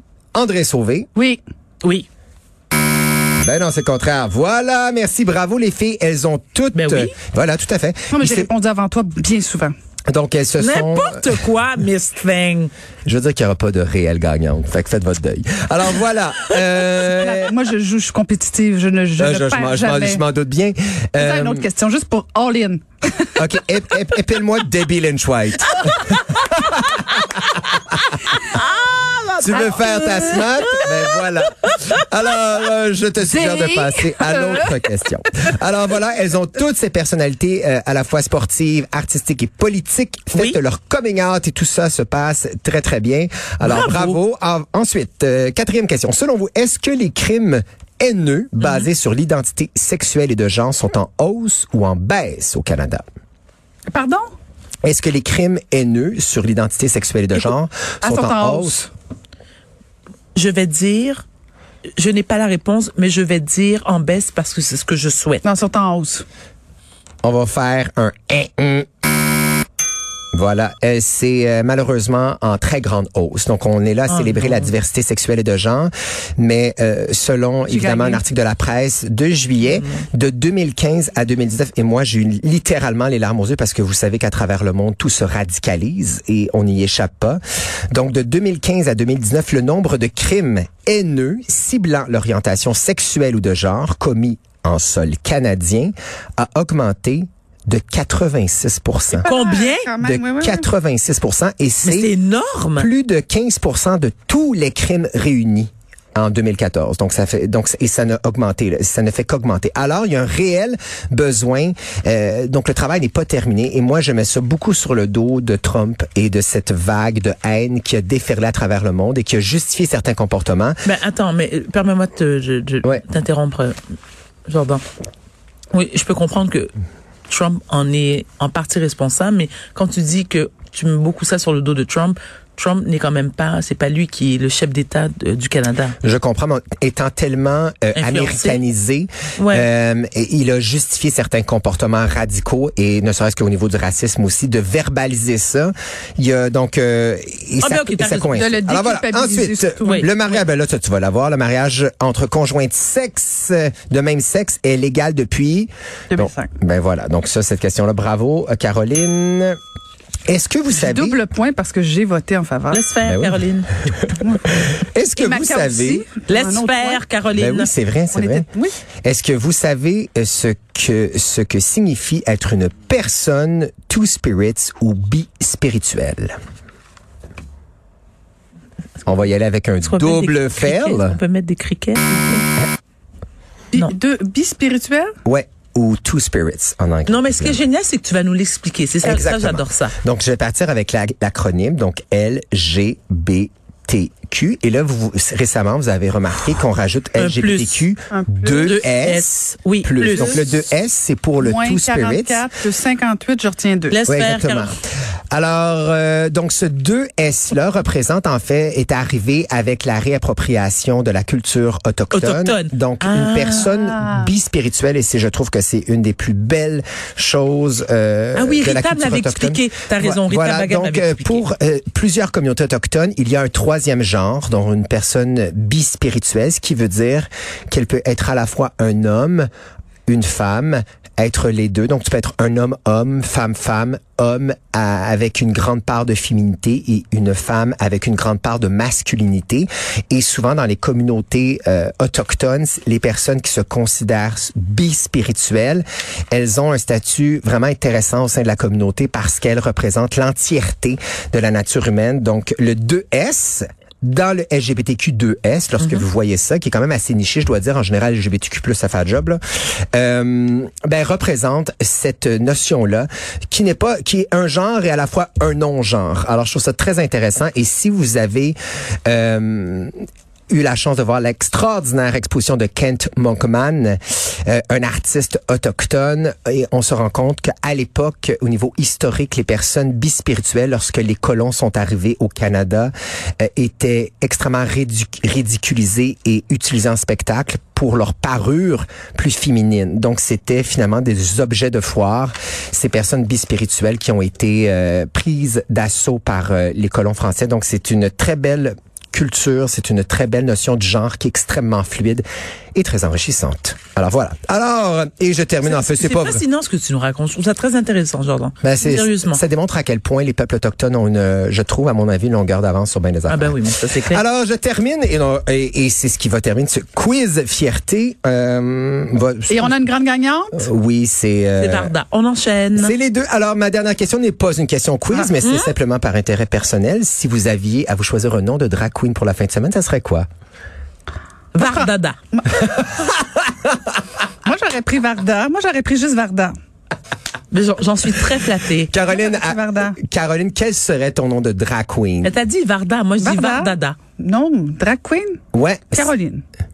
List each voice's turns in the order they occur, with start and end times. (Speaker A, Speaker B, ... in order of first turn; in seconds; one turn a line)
Speaker A: 0.3-1.1
Speaker B: 1.1-1.4
Speaker C: 1.8-2.1
Speaker A: 3.4-8.5
Speaker C: 6.7-7.1
Speaker B: 8.1-9.7
Speaker A: 10.1-11.4
Speaker C: 10.6-12.7
Speaker A: 13.1-17.5
Speaker B: 17.1-20.2
Speaker A: 19.2-21.6
Speaker B: 21.2-23.4
Speaker A: 23.4-27.6
Speaker C: 28.5-31.1
Speaker A: 29.4-53.0
Speaker C: 31.6-32.0
Speaker B: 33.3-34.9
Speaker C: 40.3-40.6
Speaker C: 43.6-44.2
Speaker B: 53.9-54.3
Speaker A: 54.8-58.8
Speaker B: 58.0-58.9
Speaker C: 60.3-61.2
Speaker C: 62.0-65.4
Speaker B: 65.4-66.2
Speaker A: 67.2-68.8
Speaker A: 70.3-87.4
Speaker C: 74.1-74.7
Speaker B: 77.7-78.2
Speaker C: 79.7-80.0
Speaker A: 87.9-99.2
Speaker B: 99.2-100.7
Speaker C: 99.2-99.9
Speaker A: 100.0-102.1
Speaker C: 101.8-102.9
Speaker A: 102.7-120.8
Speaker C: 120.8-123.8
Speaker C: 124.5-124.8
Speaker C: 125.7-126.7
Speaker C: 127.3-135.9
Speaker A: 136.0-159.6
Speaker C: 137.9-138.6
Speaker C: 139.4-139.7
Speaker C: 147.6-148.5
Speaker B: 148.3-150.1
Speaker C: 149.8-150.1
Speaker B: 156.1-156.5
Speaker A: 160.3-161.2
Speaker B: 160.7-162.8
Speaker C: 162.7-163.7
Speaker A: 163.0-166.1
Speaker B: 164.1-164.5
Speaker B: 165.2-167.0
Speaker C: 166.3-167.7
Speaker A: 167.3-168.5
Speaker B: 168.1-168.7
Speaker A: 169.0-176.3
Speaker A: 179.0-181.2
Speaker C: 179.8-182.5
Speaker B: 183.7-185.1
Speaker A: 185.2-187.6
Speaker C: 187.1-189.9
Speaker A: 189.0-202.4
Speaker C: 197.2-197.8
Speaker B: 198.1-198.8
Speaker C: 198.6-200.6
Speaker B: 200.0-200.4
Speaker B: 201.4-204.0
Speaker C: 203.9-204.7
Speaker A: 204.1-204.8
Speaker A: 205.3-229.5
Speaker C: 212.1-213.7
Speaker B: 213.8-214.3
Speaker C: 218.3-221.4
Speaker A: 230.1-259.4
Speaker C: 255.8-256.1
Speaker A: 259.9-269.9
Speaker A: 270.5-302.2
Speaker A: 302.7-306.4
Speaker C: 305.6-309.4
Speaker A: 308.6-319.9
Speaker C: 313.3-314.2
Speaker B: 319.5-320.7
Speaker A: 320.5-321.9
Speaker C: 321.6-322.9
Speaker A: 322.8-330.3
Speaker C: 325.4-325.7
Speaker C: 331.5-332.2
Speaker B: 331.6-332.9
Speaker B: 334.4-336.5
Speaker C: 337.5-338.9
Speaker A: 338.9-342.4
Speaker B: 339.1-340.0
Speaker C: 342.2-344.0
Speaker B: 343.2-345.4
Speaker A: 345.5-346.1
Speaker B: 345.9-346.4